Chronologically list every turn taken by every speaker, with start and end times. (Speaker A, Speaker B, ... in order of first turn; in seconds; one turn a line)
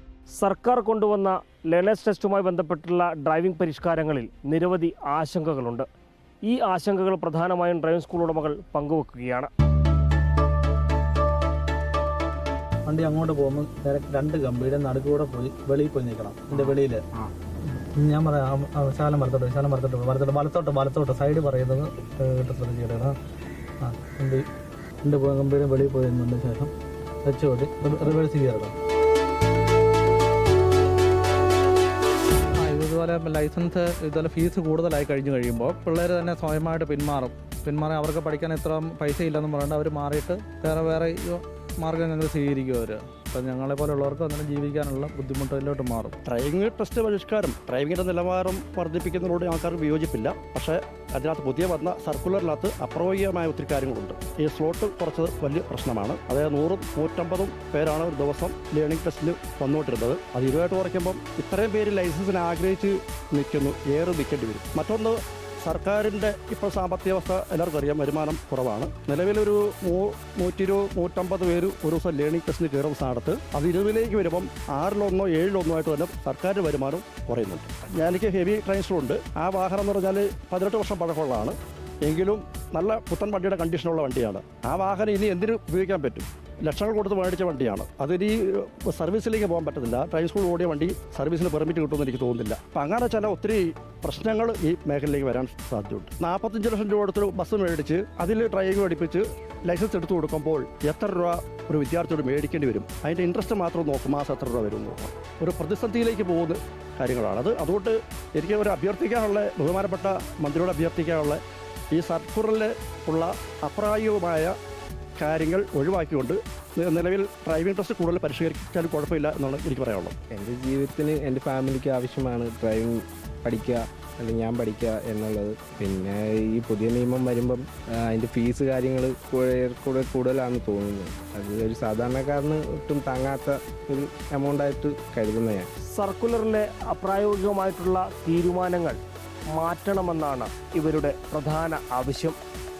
Speaker A: 0.4-5.9
Speaker A: 6.5-9.5
Speaker B: 12.9-17.0
Speaker C: 16.5-17.3
Speaker B: 18.0-23.1
Speaker B: 23.8-24.4
Speaker B: 25.0-26.7
Speaker B: 27.2-28.7
Speaker B: 32.6-46.1
Speaker D: 46.2-111.4
Speaker D: 111.9-114.5
Speaker D: 115.2-120.2
Speaker C: 120.3-135.7
Speaker A: 135.9-139.0
Speaker A: 139.6-142.4